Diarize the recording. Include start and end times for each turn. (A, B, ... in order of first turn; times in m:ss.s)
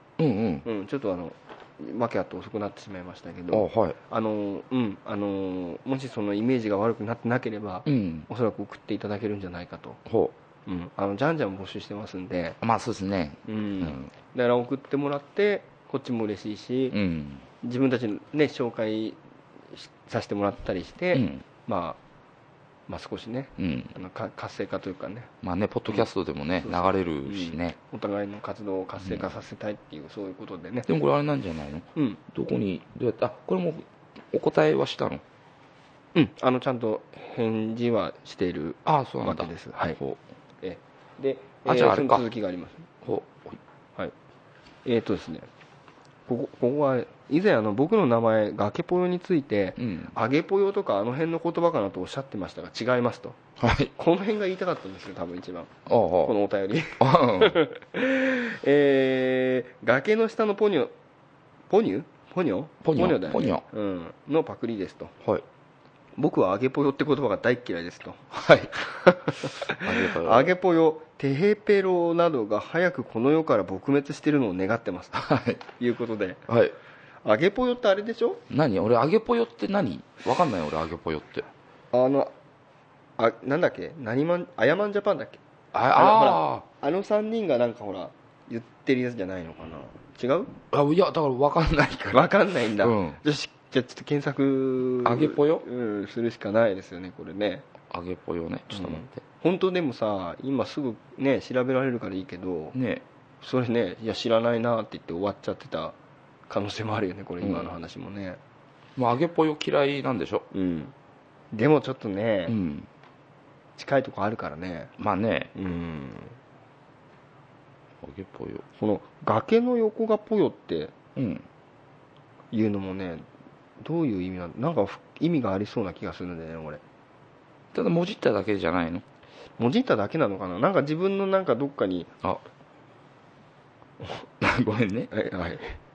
0:00.2-0:00.6 A
0:00.6-0:10.0 B
0:03.5-0:04.0 A
0:07.8-0:08.3 A
0:10.1-0:10.3 A
0:10.6-0:12.6 B
0:12.6-0:14.1 A
0:13.4-0:17.0 B
0:16.9-0:17.4 A
0:17.6-0:19.2 B
0:19.7-0:22.0 B
0:21.1-0:21.4 A
0:22.9-0:25.3 B
0:23.6-0:23.9 A
0:25.4-0:27.8 A
0:26.6-0:30.9 B
0:29.0-0:29.3 A
0:30.9-0:35.2 A
0:36.1-0:40.0 B
0:38.8-0:40.2 A
0:40.6-0:42.9 B
0:41.6-0:42.2 A
0:43.0-0:43.6 A
0:44.8-0:45.5 B
0:46.3-0:53.4 B
0:49.8-0:50.1 A
0:53.6-0:53.9 A
0:54.0-0:55.7 B
0:55.9-0:56.3 A
0:56.2-1:00.9 B
0:57.0-0:57.6 A
1:01.7-1:05.1 B
1:02.8-1:03.6 A
1:06.2-1:16.4 B
1:08.3-1:08.7 A
1:09.8-1:10.5 A
1:15.1-1:15.6 A
1:16.5-1:16.7 A
1:17.2-1:18.4 B
1:18.5-1:21.4 A
1:21.9-1:22.3 B
1:23.2-1:25.4 B
1:25.7-1:26.6 A
1:25.9-1:30.5 B
1:30.7-1:33.2 A
1:32.1-1:37.6 B
1:35.0-1:35.6 A
1:37.9-1:39.2 A
1:38.7-1:42.7 B
1:42.7-1:43.0 A
1:43.4-1:45.9 B
1:46.5-1:48.4 B
1:47.4-1:47.7 A
1:49.0-1:50.5 A
1:50.5-1:50.9 B
1:51.5-1:52.5 B
1:52.5-1:52.9 A
1:53.8-1:54.9 B
1:55.0-1:55.5 A
1:55.5-1:56.4 B
1:58.0-1:58.6 A
1:58.8-2:00.9 B
2:01.2-2:01.4 A
2:02.5-2:03.2 B
2:03.8-2:06.8 B
2:07.7-2:09.0 A
2:09.6-2:12.1 B
2:14.4-2:15.1 A
2:15.1-2:15.7 B